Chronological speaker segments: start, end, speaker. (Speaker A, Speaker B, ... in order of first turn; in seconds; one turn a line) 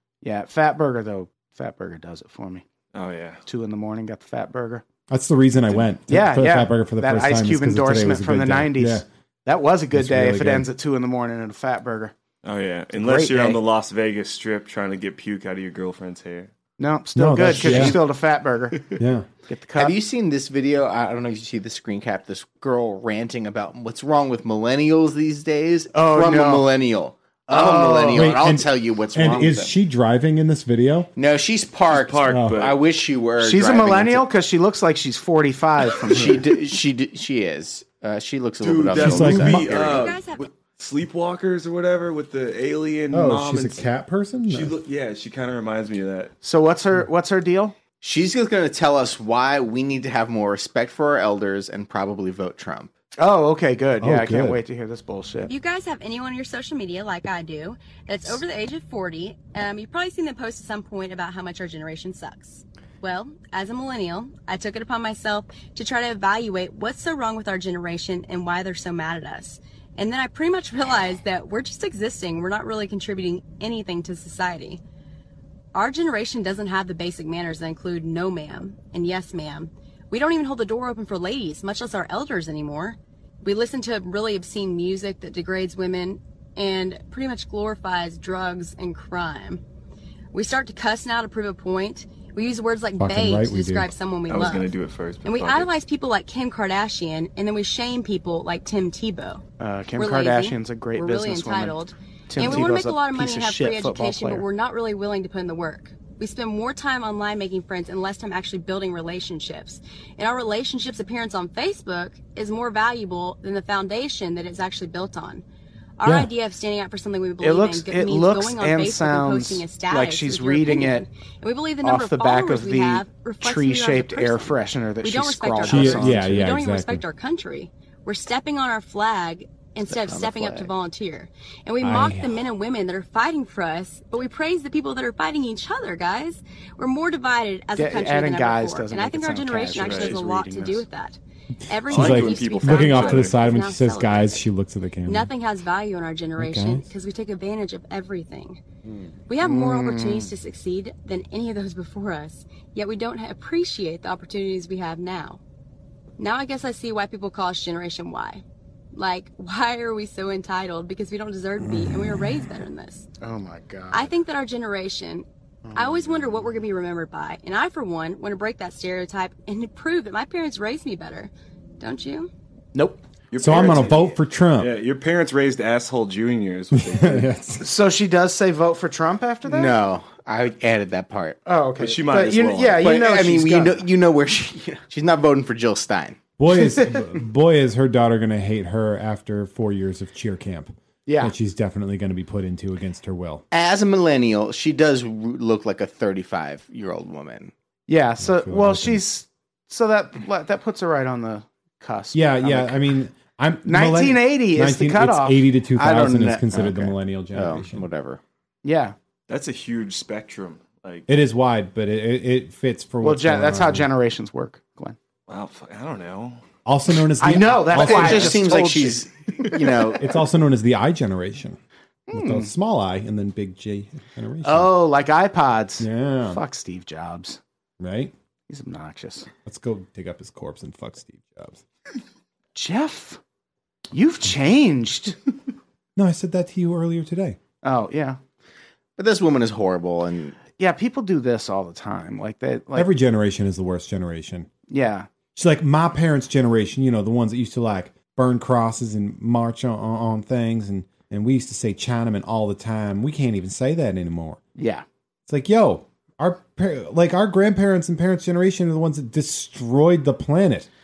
Speaker A: 0.2-2.6
Speaker B: 2.9-3.4
Speaker A: 3.5-4.8
Speaker C: 5.1-9.1
Speaker A: 5.7-12.1
Speaker C: 9.9-10.7
Speaker B: 12.4-16.5
Speaker A: 12.9-13.6
Speaker A: 16.8-18.8
Speaker C: 17.2-18.0
Speaker D: 17.6-18.0
Speaker C: 19.0-19.3
Speaker A: 19.5-20.0
Speaker D: 19.8-29.7
Speaker A: 25.9-26.7
Speaker A: 27.5-28.4
Speaker C: 28.1-31.1
Speaker D: 31.2-34.3
Speaker B: 31.9-32.8
Speaker C: 32.3-32.6
Speaker A: 33.4-36.4
Speaker D: 36.1-40.1
Speaker B: 38.6-43.9
Speaker C: 39.0-40.0
Speaker E: 39.9-40.5
Speaker C: 43.1-44.8
Speaker B: 44.5-46.3
Speaker A: 46.4-47.8
Speaker D: 48.0-52.9
Speaker A: 53.2-55.5
Speaker C: 54.0-54.6
Speaker E: 55.5-74.8
Speaker E: 75.7-89.6
Speaker E: 90.3-94.7
Speaker C: 93.0-93.9
Speaker B: 94.3-95.7
Speaker E: 95.2-99.4
Speaker A: 99.6-104.5
Speaker E: 100.0-115.4
Speaker E: 116.0-144.4
Speaker C: 116.0-116.3
Speaker A: 117.4-121.1
Speaker A: 121.8-126.5
Speaker C: 125.6-127.0
Speaker D: 129.8-130.7
Speaker C: 131.8-132.5
Speaker A: 137.8-140.9
Speaker B: 139.8-140.2
Speaker C: 141.8-145.3
Speaker B: 141.9-143.4
Speaker E: 145.1-148.6
Speaker C: 146.4-146.9
Speaker E: 149.3-155.4
Speaker A: 149.4-150.3
Speaker E: 156.2-158.4
Speaker E: 158.9-163.1
Speaker C: 161.6-162.6
Speaker A: 163.2-164.1
Speaker E: 163.9-172.3
Speaker A: 165.6-166.5
Speaker A: 172.8-173.9
Speaker B: 173.3-177.3
Speaker C: 173.4-174.8
Speaker C: 176.7-177.7
Speaker A: 177.6-179.8
Speaker D: 179.5-181.4
Speaker A: 181.4-183.9
Speaker B: 181.8-182.9
Speaker D: 182.8-186.2
Speaker C: 186.4-193.4
Speaker A: 186.7-186.9
Speaker A: 191.1-191.3
Speaker D: 193.5-197.5
Speaker A: 197.9-202.9
Speaker C: 198.2-199.0
Speaker C: 202.1-207.9
Speaker A: 203.7-206.4
Speaker D: 205.8-208.2
Speaker A: 208.6-208.9
Speaker B: 209.3-211.1
Speaker C: 211.1-213.9
Speaker A: 213.0-215.0
Speaker B: 215.3-216.4
Speaker C: 216.7-218.5
Speaker A: 217.2-219.0
Speaker D: 217.7-220.1
Speaker C: 220.0-221.6
Speaker A: 222.1-222.5
Speaker C: 222.1-224.7
Speaker A: 224.4-227.4
Speaker C: 225.8-226.4
Speaker C: 227.8-228.1
Speaker A: 228.5-229.3
Speaker C: 229.5-231.6
Speaker A: 232.6-233.2
Speaker A: 233.9-235.2
Speaker C: 236.0-237.4
Speaker A: 237.6-238.2
Speaker D: 239.0-240.4
Speaker A: 240.6-242.9
Speaker C: 242.8-244.5
Speaker A: 244.7-245.1
Speaker C: 245.3-254.4
Speaker A: 254.6-254.8
Speaker C: 255.3-260.7